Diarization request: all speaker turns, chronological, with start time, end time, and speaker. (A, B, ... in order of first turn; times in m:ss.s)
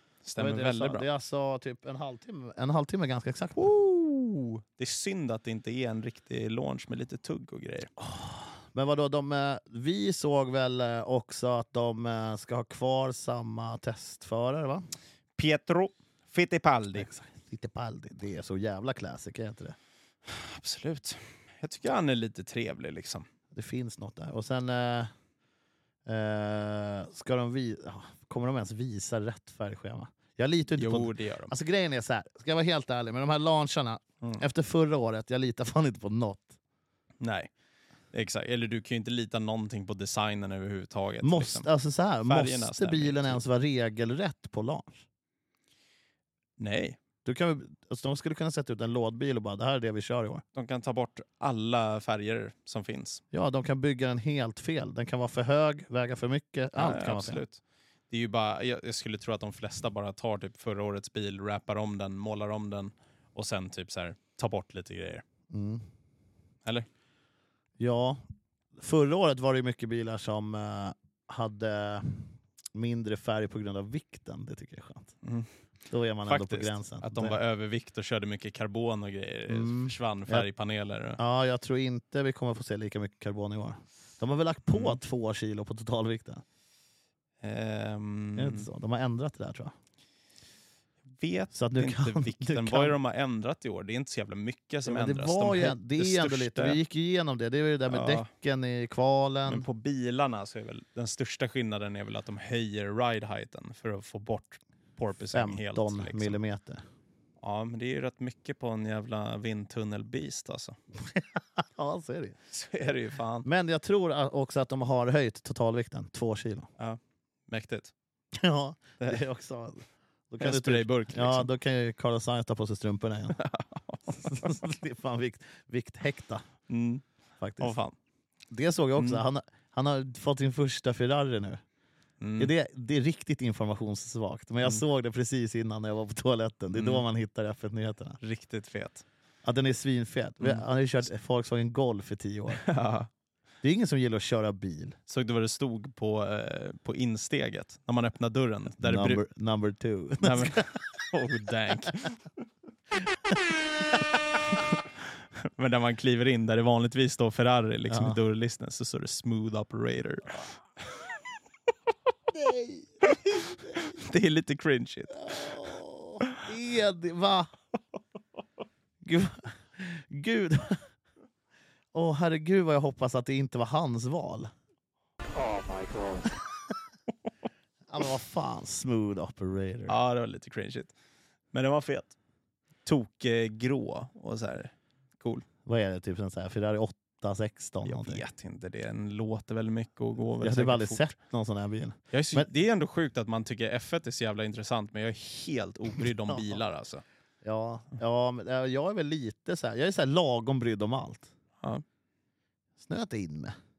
0:00.3-0:01.1 A
0:00.4-0:03.7 B
0:03.6-0:07.9 A
0:08.0-0:14.8 B
0:15.4-0:17.1 A
0:17.0-0:19.8 B
0:20.3-0:23.3 A
0:23.5-0:25.1 B
0:26.1-0:36.6 B
0:30.8-0:31.5 A
0:37.2-0:37.5 A
0:38.1-0:41.7 A
0:41.2-0:45.0 B
0:42.2-0:43.4 A
0:46.6-0:47.0 A
0:47.2-0:50.4 B
0:50.6-0:53.2 A
0:53.3-0:57.4 B
0:56.8-1:05.2 A
1:05.5-1:05.8 B
1:07.8-1:08.2 B
1:08.8-1:15.1 B
1:15.2-1:15.5 A
1:15.9-1:17.4 B
1:16.2-1:21.2 A
1:19.5-1:20.5 B
1:21.2-1:26.4 B
1:24.7-1:25.0 A
1:27.4-1:28.7 A
1:28.4-1:29.7 B
1:31.2-1:36.8 A
1:31.5-1:32.9 B
1:34.8-1:39.6 B
1:37.9-1:38.3 A
1:39.5-1:46.4 A
1:45.3-1:46.8 B
1:47.4-1:50.8 A
1:51.1-1:52.4 B
1:52.5-1:53.5 A
1:53.4-1:56.7 B
1:56.8-1:57.9 A
1:58.3-2:03.4 B
2:00.4-2:01.5 A
2:03.3-2:04.5 A
2:04.1-2:06.4 B
2:06.7-2:07.0 A
2:07.4-2:07.8 B
2:07.6-2:08.0 A
2:08.5-2:11.6 B
2:12.2-2:12.5 A
2:12.4-2:18.2 B
2:16.7-2:17.0 A
2:18.2-2:19.0 A
2:19.4-2:22.6 B
2:22.5-2:23.1 A
2:23.6-2:25.0 B
2:25.1-2:29.2 A
2:28.8-2:30.7 B
2:30.2-2:32.2 A
2:34.5-2:40.5 A
2:37.9-2:38.2 B
2:42.3-2:43.9 B
2:43.3-2:45.7 A
2:45.1-2:47.5 B
2:49.0-2:50.8 B
2:51.9-2:54.5 B
2:57.9-3:00.0 B
2:59.9-3:00.9 A
3:01.5-3:02.2 A
3:02.8-3:05.4 A
3:05.7-3:08.2 B
3:07.8-3:11.1 A
3:10.4-3:12.5 B
3:12.1-3:17.0 A
3:16.3-3:16.6 B
3:17.4-3:21.3 B
3:22.8-3:23.5 B